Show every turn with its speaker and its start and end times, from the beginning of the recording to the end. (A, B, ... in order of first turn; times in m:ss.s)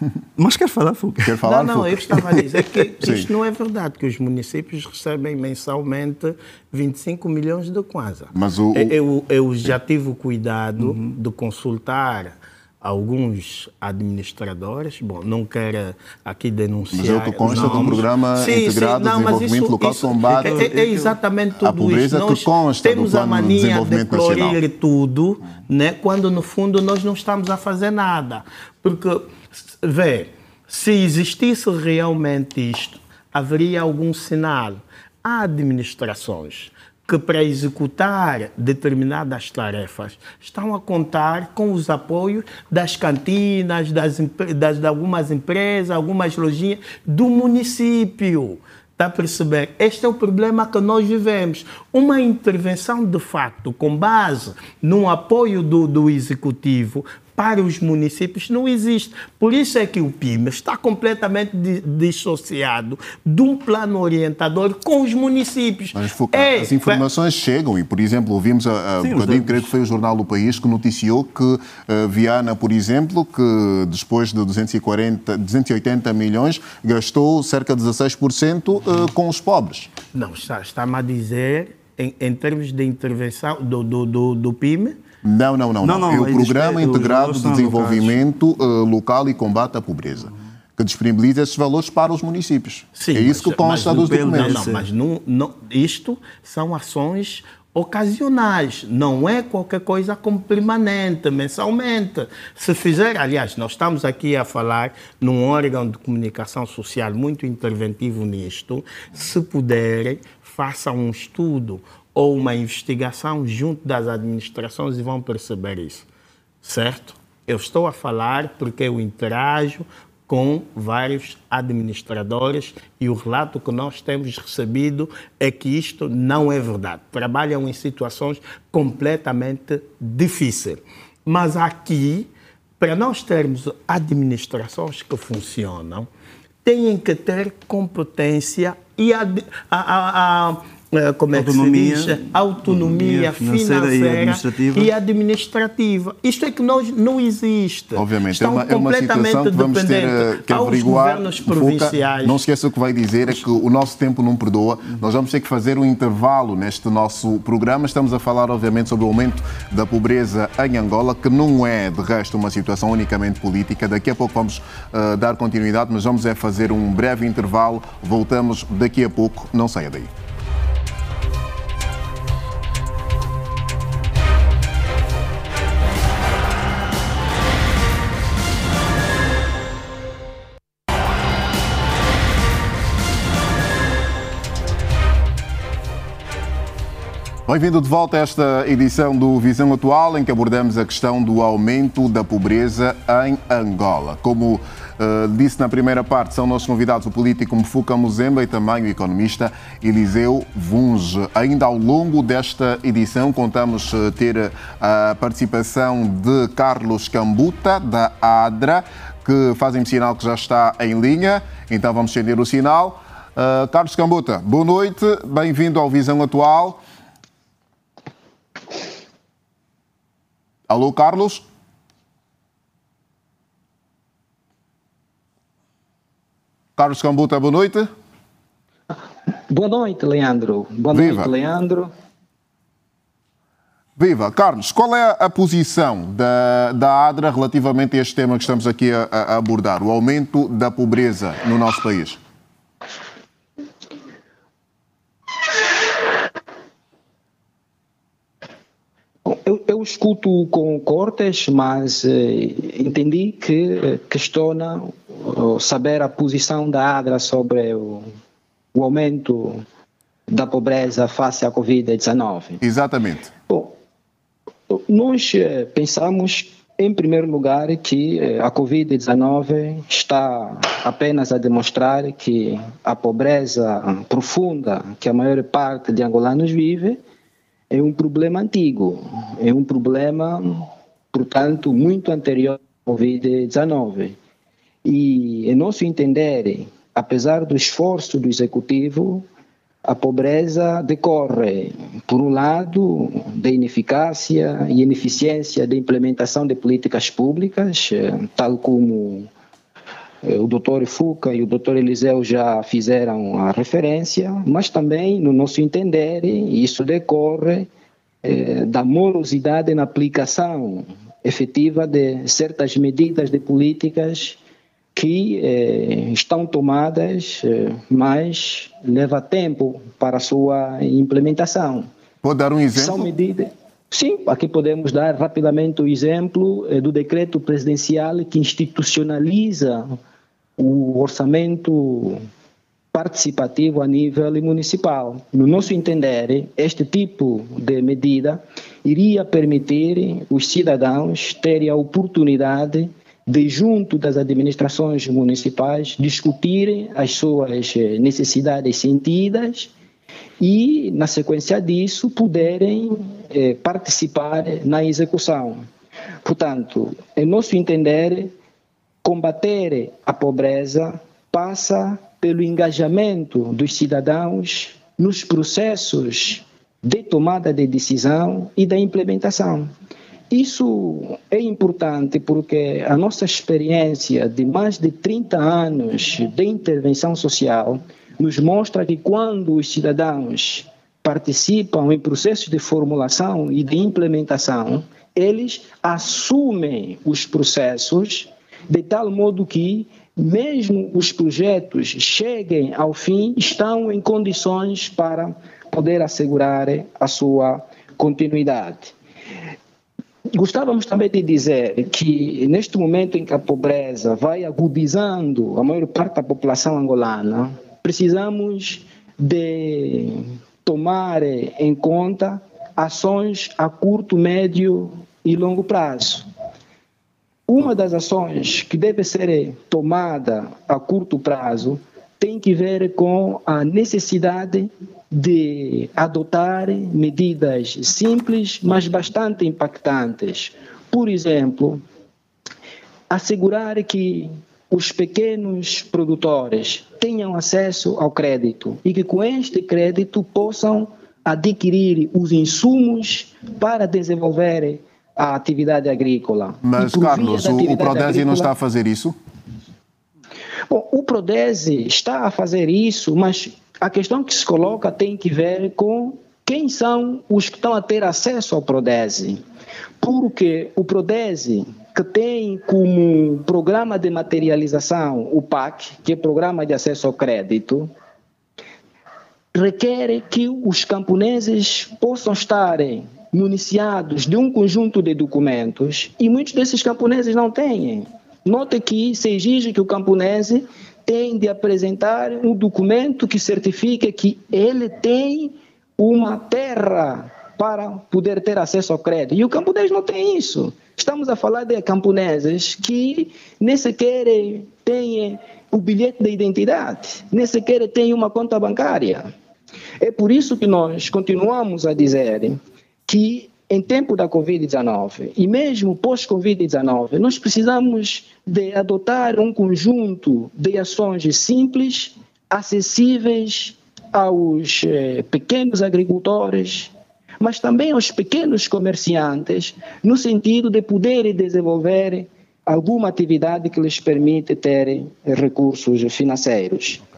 0:00.4-0:01.4 A
0:01.2-0:02.4 B
0:01.4-1:07.0 C
0:03.0-0:03.3 B
0:08.3-0:09.0 B
0:10.8-0:11.1 A
0:16.9-0:20.6 B
0:17.4-0:18.0 A
0:20.3-0:21.2 A
0:21.6-0:24.6 B
1:05.9-1:19.9 B
1:09.0-1:09.7 A
1:20.1-1:25.0 C
1:25.2-1:34.6 B
1:25.8-1:28.2 A
1:32.9-1:56.0 C
1:33.8-1:34.9 A
1:56.6-2:12.3 C
2:12.8-2:16.1 C
2:16.6-2:32.4 C
2:21.3-2:24.9 A
2:28.0-2:50.1 B
3:07.4-3:36.8 B
3:40.7-3:41.4 B
3:46.8-3:47.9 B
3:49.5-3:51.9 D
3:50.9-3:51.3 B
3:54.0-4:02.2 B
4:09.2-4:18.1 D
4:18.7-4:19.6 D
4:20.3-4:22.6 D
4:22.6-4:23.3 B
4:23.5-4:23.7 D
4:24.7-4:37.0 D
4:37.7-4:44.2 D
4:44.8-4:49.2 D
4:49.8-4:59.3 D
5:00.2-5:07.7 D
5:08.2-5:14.4 D
5:14.9-5:21.9 D
5:22.2-5:23.1 B
5:22.7-5:29.9 D
5:30.6-5:32.2 D
5:32.9-5:49.7 D
5:50.4-5:55.6 D
5:56.2-5:58.3 D
5:59.0-6:09.7 D
6:10.3-6:38.9 D
6:40.3-6:56.3 D
6:57.5-7:11.8 D
7:13.1-7:28.5 D
7:26.6-7:29.2 B
7:30.7-7:39.4 D
7:40.0-7:47.9 D
7:49.5-8:19.3 D
8:20.0-8:47.0 D